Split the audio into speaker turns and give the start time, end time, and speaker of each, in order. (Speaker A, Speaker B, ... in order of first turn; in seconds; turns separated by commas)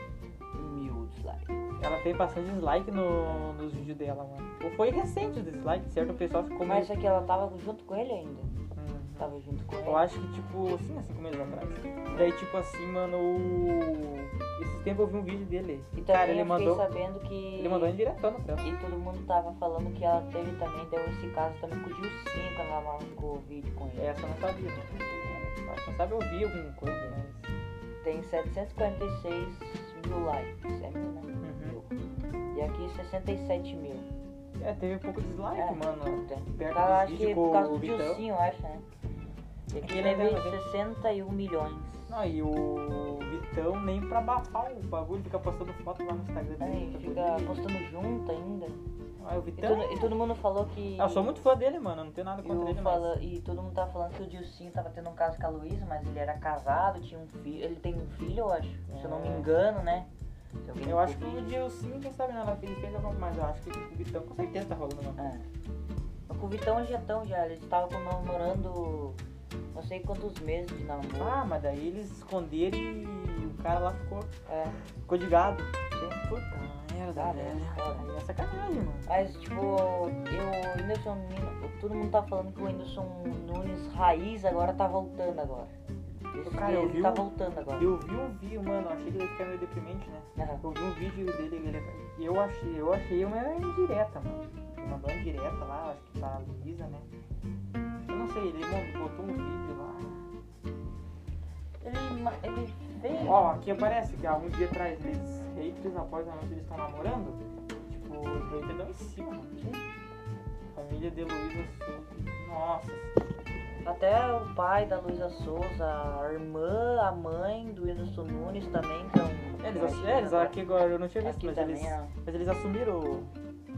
Speaker A: 0.5-1.5, Speaker B: 1.8-6.9, Speaker A: 6.7-8.6, Speaker B: 8.8-9.3, Speaker A: 9.2-10.1, Speaker B: 9.8-16.8, Speaker A: 15.9-17.9, Speaker B: 17.6-18.7, Speaker A: 18.6-24.1, Speaker B: 23.9-27.5, Speaker A: 28.0-31.9, Speaker B: 31.4-31.8, Speaker A: 32.5-34.1, Speaker B: 34.6-38.2, Speaker A: 35.5-38.8, Speaker A: 39.7-42.2, Speaker B: 39.8-40.7, Speaker B: 42.1-47.7, Speaker A: 46.6-48.8, Speaker B: 49.2-50.1, Speaker A: 49.6-51.4, Speaker B: 51.0-53.1, Speaker A: 52.4-60.1, Speaker B: 58.9-59.5, Speaker A: 60.6-61.5, Speaker B: 60.8-65.3, Speaker A: 65.2-65.5, Speaker A: 66.3-69.2, Speaker A: 69.7-71.4, Speaker B: 71.2-74.3, Speaker A: 74.5-74.8, Speaker B: 75.0-79.1, Speaker A: 75.9-76.2, Speaker A: 77.1-78.1, Speaker A: 79.1-85.7, Speaker A: 86.3-87.9, Speaker B: 86.4-97.1, Speaker A: 90.4-90.6, Speaker B: 98.1-100.3, Speaker A: 101.8-103.9, Speaker B: 103.2-109.5, Speaker B: 110.7-113.1, Speaker A: 113.8-120.6, Speaker B: 119.6-123.3, Speaker A: 121.2-122.1